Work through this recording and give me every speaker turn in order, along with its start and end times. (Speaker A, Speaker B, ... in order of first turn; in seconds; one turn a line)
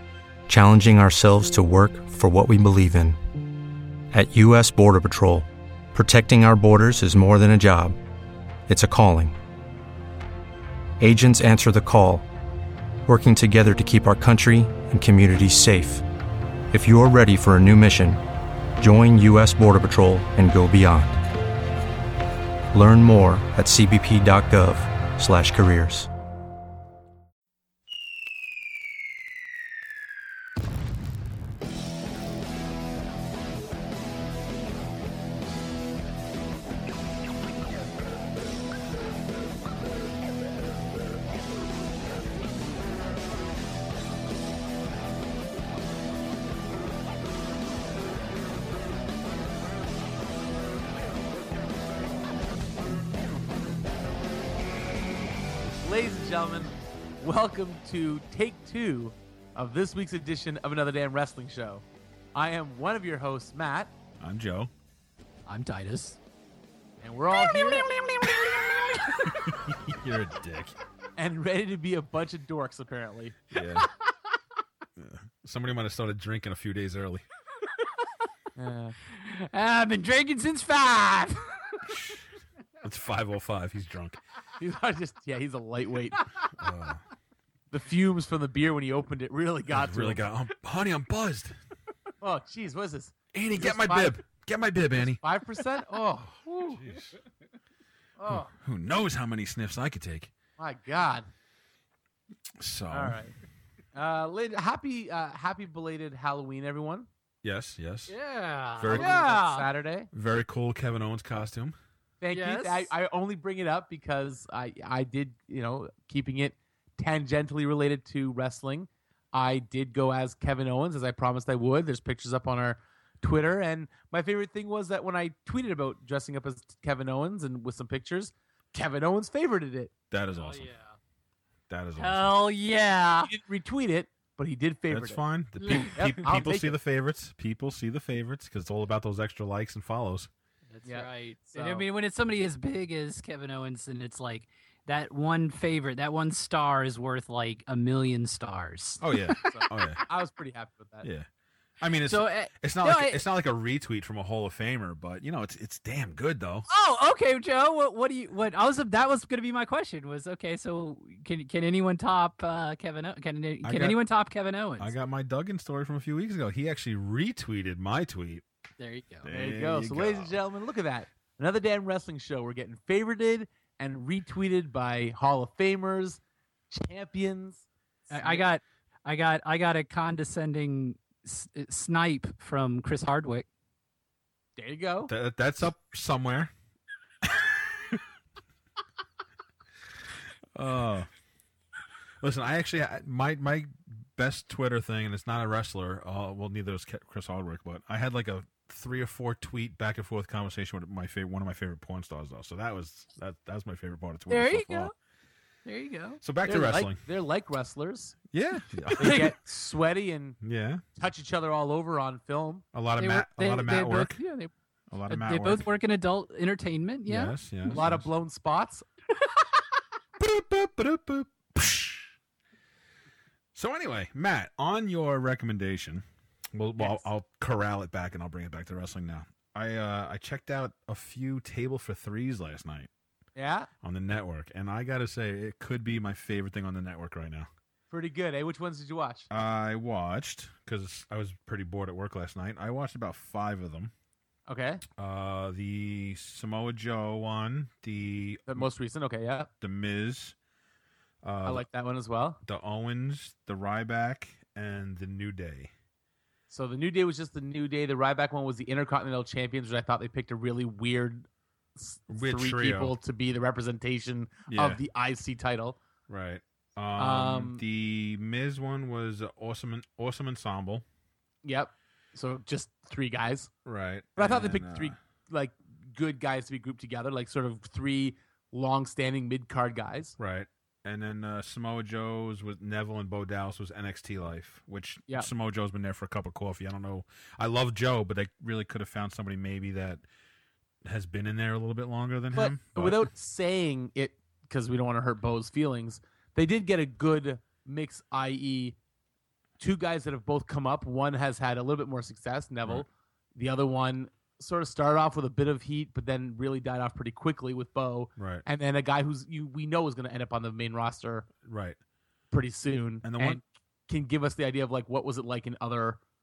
Speaker A: 0.5-3.2
Speaker A: 4.1-8.0
Speaker A: 8.7-9.4
Speaker A: 11.0-12.3
Speaker A: 13.1-16.1
Speaker A: 16.7-18.2
Speaker A: 18.8-21.2
Speaker A: 22.7-26.1
Speaker B: 55.8-63.9
Speaker C: 64.2-64.7
Speaker D: 65.5-66.2
Speaker B: 67.0-67.9
Speaker D: 67.8-68.3
Speaker D: 69.0-69.4
Speaker C: 69.4-70.8
Speaker B: 71.2-73.4
Speaker C: 73.5-73.9
Speaker C: 75.0-77.2
Speaker B: 78.6-79.0
Speaker D: 79.1-81.8
Speaker C: 81.9-82.2
Speaker C: 82.8-84.2
Speaker B: 84.6-86.2
Speaker C: 86.6-87.0
Speaker B: 87.7-90.2
Speaker C: 89.7-91.6
Speaker B: 92.2-94.2
Speaker C: 93.3-95.2
Speaker B: 95.0-96.8
Speaker C: 96.7-97.1
Speaker B: 98.2-98.5
Speaker C: 98.3-100.3
Speaker B: 100.6-101.3
Speaker C: 102.6-103.2
Speaker B: 102.9-103.3
Speaker B: 104.0-107.1
Speaker C: 107.4-108.2
Speaker D: 108.1-109.7
Speaker C: 108.8-109.2
Speaker B: 108.9-110.1
Speaker C: 110.1-111.8
Speaker B: 112.2-129.9
Speaker D: 112.3-112.9
Speaker C: 130.1-130.7
Speaker D: 130.3-130.9
Speaker C: 131.7-132.4
Speaker D: 132.0-133.3
Speaker B: 133.3-135.2
Speaker C: 134.9-140.3
Speaker D: 135.6-136.0
Speaker B: 135.9-136.8
Speaker D: 140.7-150.0
Speaker B: 140.8-141.9
Speaker C: 149.0-150.0
Speaker B: 149.5-151.1
Speaker C: 151.8-156.7
Speaker D: 152.1-153.2
Speaker D: 156.7-164.9
Speaker C: 163.6-164.0
Speaker C: 164.8-168.4
Speaker D: 168.8-169.3
Speaker C: 169.2-170.3
Speaker B: 169.3-176.2
Speaker B: 176.7-178.5
Speaker D: 178.1-183.5
Speaker B: 184.6-185.1
Speaker C: 185.1-186.5
Speaker C: 187.2-188.0
Speaker C: 190.6-191.1
Speaker C: 192.2-204.9
Speaker D: 204.3-204.9
Speaker D: 205.7-206.2
Speaker C: 206.2-207.0
Speaker B: 206.4-208.2
Speaker C: 208.3-209.4
Speaker B: 209.0-210.4
Speaker C: 210.4-210.8
Speaker B: 211.0-212.6
Speaker C: 212.7-214.2
Speaker D: 213.0-214.5
Speaker C: 214.9-215.7
Speaker D: 215.1-217.8
Speaker C: 217.1-218.1
Speaker B: 217.7-218.8
Speaker C: 220.2-222.1
Speaker C: 223.5-232.9
Speaker B: 233.4-233.7
Speaker C: 233.8-237.5
Speaker B: 237.9-239.3
Speaker C: 239.3-243.9
Speaker B: 244.5-244.8
Speaker C: 245.0-248.7
Speaker B: 248.5-249.5
Speaker C: 249.6-250.4
Speaker C: 251.2-251.6
Speaker B: 251.4-252.4
Speaker C: 252.5-255.7
Speaker B: 256.5-265.8
Speaker C: 262.1-263.0
Speaker C: 264.5-264.8
Speaker C: 266.1-270.9
Speaker B: 267.0-267.6
Speaker B: 271.4-273.5
Speaker C: 273.7-275.0
Speaker B: 274.2-280.2
Speaker C: 280.2-290.0
Speaker C: 290.8-293.1
Speaker B: 292.3-298.8
Speaker B: 299.6-311.3
Speaker C: 308.2-308.4
Speaker C: 311.4-311.8
Speaker B: 312.3-316.0
Speaker C: 313.0-313.4